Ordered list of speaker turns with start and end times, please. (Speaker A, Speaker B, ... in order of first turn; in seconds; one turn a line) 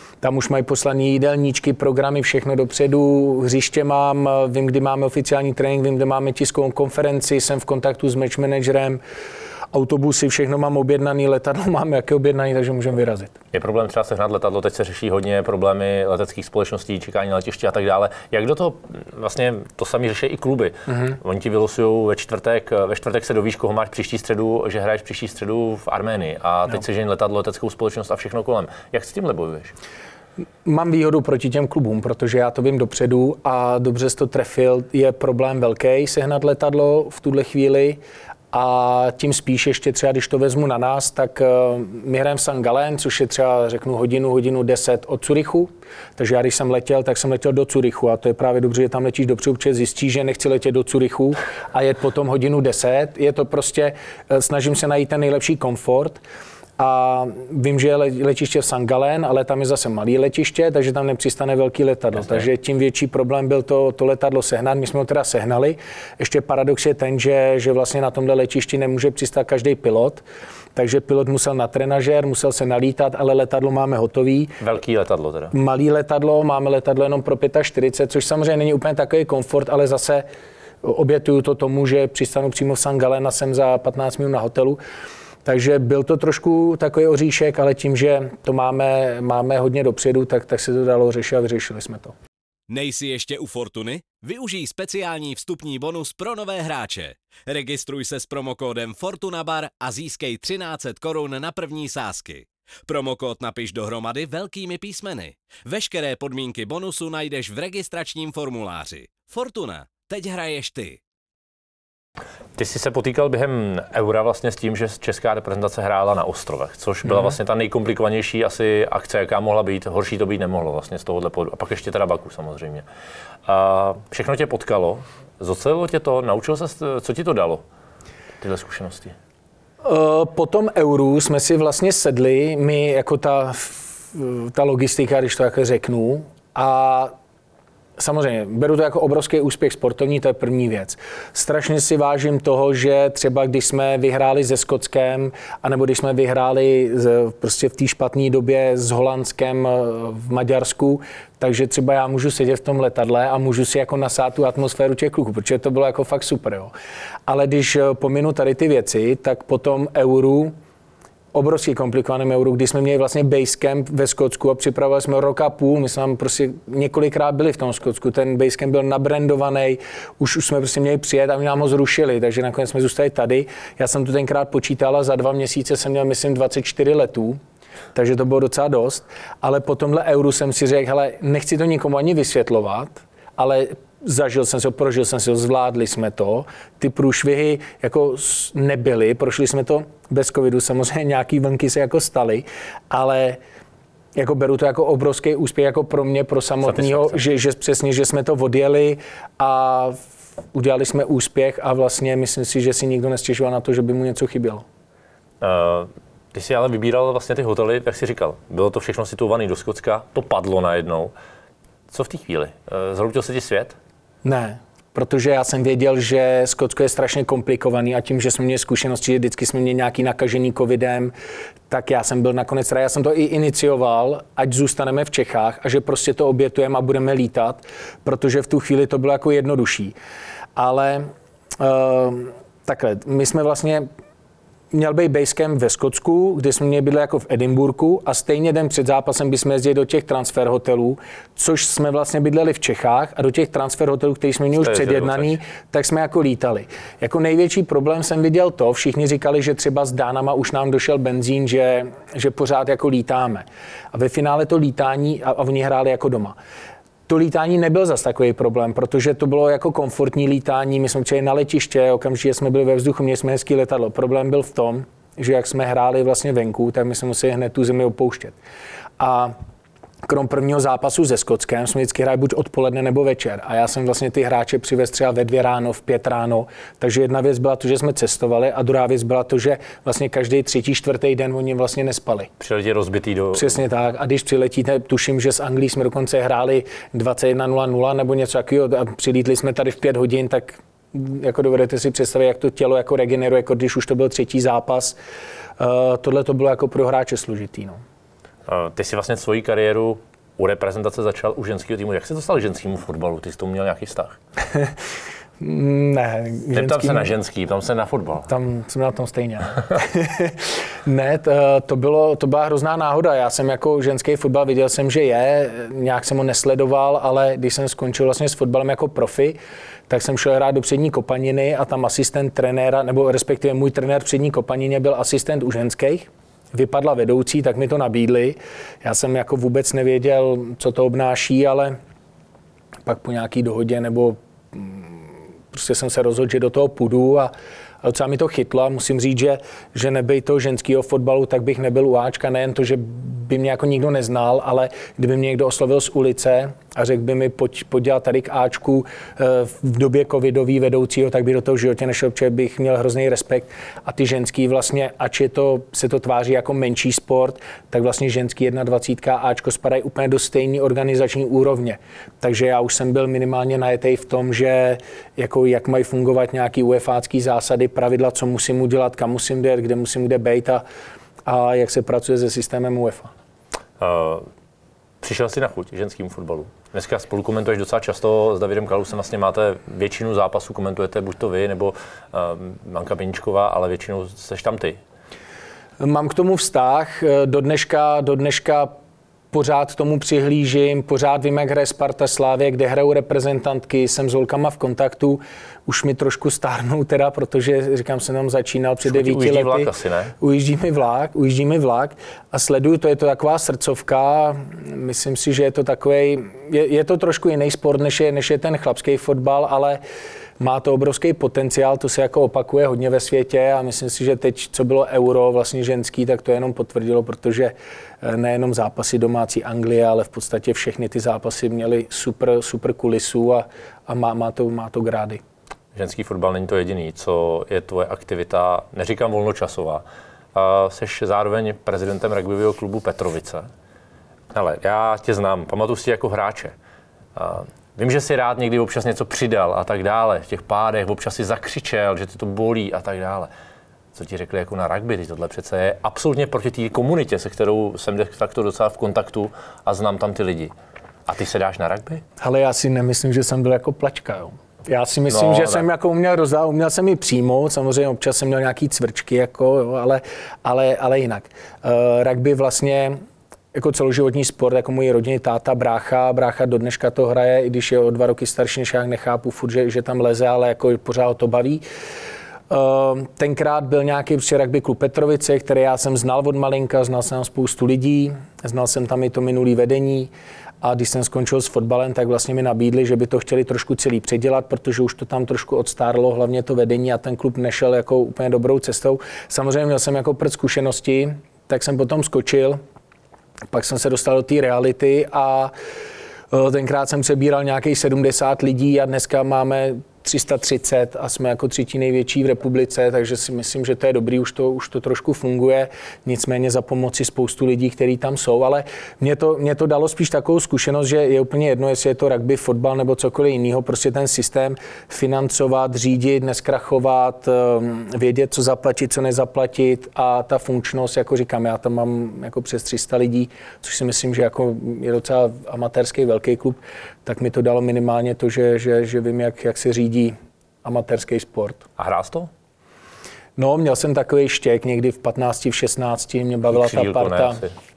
Speaker A: 0.2-9.0
Speaker A: 9.7-13.3
Speaker B: 13.5-29.7
Speaker A: 30.6-38.0
Speaker A: 38.5-56.2
Speaker A: 56.8-70.2
Speaker A: 70.8-74.6
Speaker B: 74.6-75.5
Speaker A: 75.5-80.2
Speaker A: 80.8-84.8
Speaker A: 85.4-92.1
Speaker C: 92.7-111.0
Speaker B: 112.5-122.8
Speaker B: 123.5-127.6
Speaker B: 128.4-129.1
Speaker A: 129.8-137.1
Speaker A: 138.0-156.7
Speaker A: 157.3-160.5
Speaker A: 161.3-177.4
Speaker A: 177.9-193.4
Speaker A: 194.2-200.0
Speaker B: 196.6-197.2
Speaker A: 200.5-204.6
Speaker B: 205.4-211.1
Speaker B: 211.9-213.8
Speaker A: 214.2-221.1
Speaker A: 221.7-229.9
Speaker A: 230.6-233.9
Speaker A: 234.7-256.3
Speaker B: 244.5-245.4
Speaker A: 257.1-268.4
Speaker A: 269.0-269.3
Speaker A: 270.0-282.3
Speaker B: 282.4-283.6
Speaker A: 283.3-295.0
Speaker A: 295.6-297.8
Speaker B: 298.4-304.2
Speaker A: 305.4-307.1
Speaker B: 306.5-308.3
Speaker A: 308.3-319.4
Speaker A: 319.9-331.8
Speaker A: 332.9-337.3
Speaker A: 337.8-370.6
Speaker A: 371.2-373.1
Speaker B: 373.8-374.3
Speaker B: 375.0-384.8
Speaker A: 385.8-388.7
Speaker A: 389.3-409.8
Speaker B: 398.8-400.1
Speaker A: 410.4-425.2
Speaker B: 425.7-433.5
Speaker B: 434.3-436.5
Speaker B: 437.1-443.3
Speaker B: 443.9-450.5
Speaker B: 451.1-452.0
Speaker A: 452.2-463.0
Speaker B: 455.1-455.6
Speaker A: 463.5-471.6
Speaker A: 472.5-480.1
Speaker A: 480.6-492.6
Speaker A: 493.5-495.5
Speaker A: 496.3-531.6
Speaker B: 531.8-532.3
Speaker A: 533.4-537.4
Speaker B: 536.5-537.5